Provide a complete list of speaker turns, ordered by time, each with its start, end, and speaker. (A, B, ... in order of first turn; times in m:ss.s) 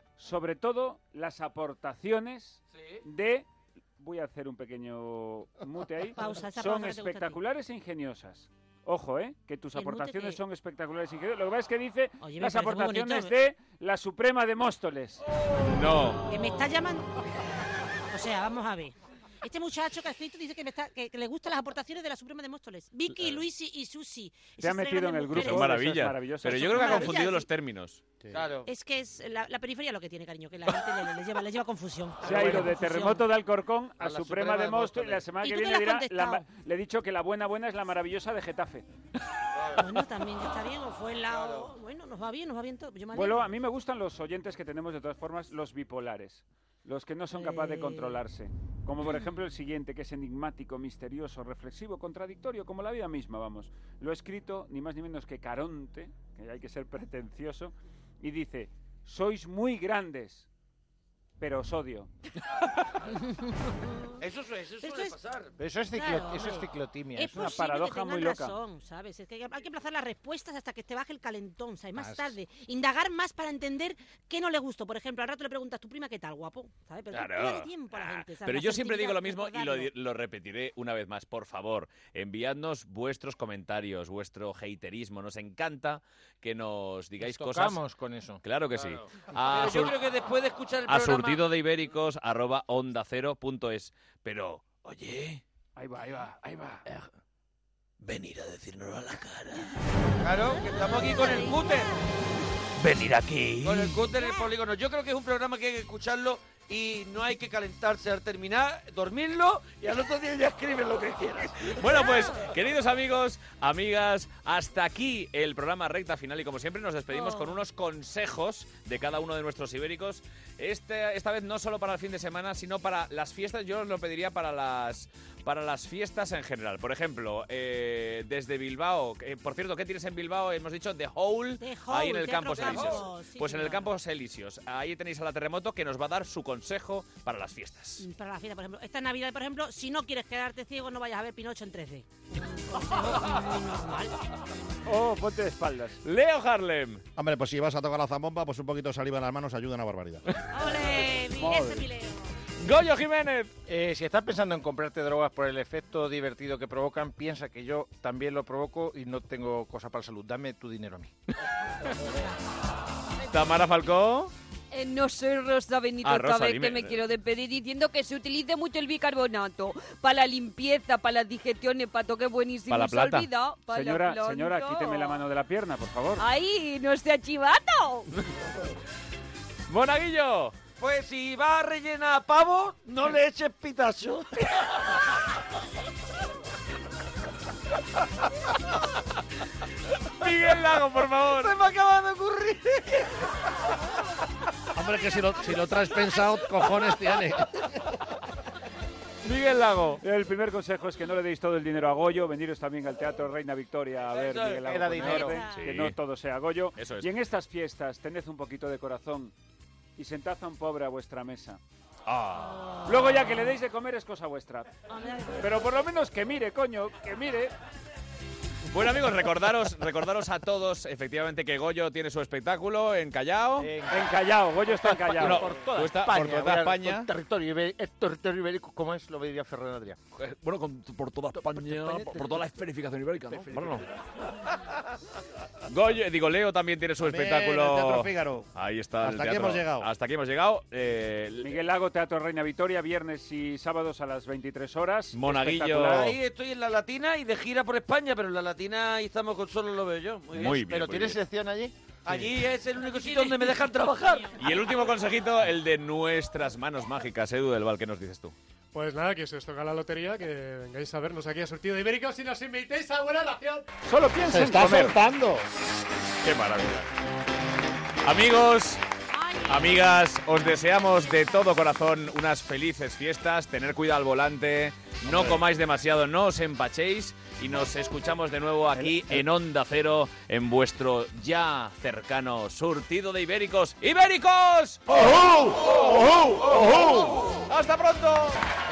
0:00.2-0:15.2 A
0:02.7-0:03.0 B
0:06.1-0:07.4 C
0:09.7-0:10.4 C
0:12.2-0:13.3 C
0:15.6-0:16.2 D
0:16.3-0:17.2 C
0:18.1-0:25.8 C
0:23.1-0:23.4 D
0:24.6-0:27.2 A
0:25.3-0:28.0 D
0:26.6-0:27.5 C
0:28.3-0:28.7 B
0:28.6-0:33.2 C
0:32.2-0:32.7 B
0:32.2-0:38.9 A
0:34.0-0:35.2 B
0:35.4-0:36.4 C
0:39.6-0:39.8 B
0:39.7-0:43.4 C
0:41.3-0:41.7 B
0:43.1-1:00.4 A
0:47.4-0:48.2 C
1:01.4-1:02.1 A
1:04.2-1:05.5 B
1:04.8-1:05.2 C
1:05.6-1:07.5 E
1:05.9-1:19.9 C
1:07.3-1:08.6 A
1:12.0-1:12.2 E
1:17.1-1:27.8 D
1:27.2-1:28.4 E
1:28.4-1:30.0 D
1:29.4-1:31.4 B
1:30.8-1:35.4 D
1:35.8-1:36.8 A
1:38.0-1:39.6 D
1:40.2-1:41.9 B
1:42.8-1:44.0 D
1:43.6-1:51.8 B
1:51.7-2:18.0 D
1:57.1-1:57.4 C
2:11.6-2:13.9 C
2:18.0-2:24.2 C
2:24.8-2:26.0 A
2:26.0-2:27.0 D
2:27.2-2:30.2 F
2:30.5-2:32.3 C
2:31.3-2:31.9 A
2:32.6-2:33.5 D
2:33.7-2:41.1 E
2:43.3-2:44.3 D
2:44.8-2:55.2 G
2:46.0-2:47.0 D
2:52.7-2:53.3 D
2:53.7-2:56.2 A
2:56.5-2:58.0 G
2:59.7-3:00.6 D
3:00.8-3:05.0 B
3:10.2-3:11.6 D
3:11.4-3:13.1 B
3:19.2-3:20.0 D
3:20.0-3:29.3 A
3:24.1-3:24.6 B
3:24.6-3:25.4 E
3:25.2-3:25.6 C
3:25.5-3:25.9 D
3:26.8-3:27.1 D
3:30.0-3:31.6 A
3:32.1-3:32.6 D
3:32.8-3:34.7 A
3:34.9-3:35.6 C
3:35.4-3:37.5 A
3:38.7-3:43.7 D
3:43.6-3:50.0 E
3:43.9-3:45.5 A
3:45.2-3:47.1 D
3:50.2-3:53.8 D
3:51.3-3:52.4 E
3:53.3-3:53.8 E
3:55.7-4:01.6 D
3:57.0-3:58.5 F
3:59.0-3:59.9 F
4:01.4-4:06.2 A
4:05.1-4:06.2 D
4:06.0-4:10.6 B
4:10.3-4:11.2 D
4:10.4-4:11.7 E
4:12.0-4:14.4 B
4:12.8-4:14.8 C
4:14.4-4:18.4 D
4:18.7-4:23.6 H
4:23.8-4:25.0 A
4:26.2-4:26.9 D
4:28.0-4:28.8 D
4:29.1-4:29.7 C
4:29.4-4:48.4 D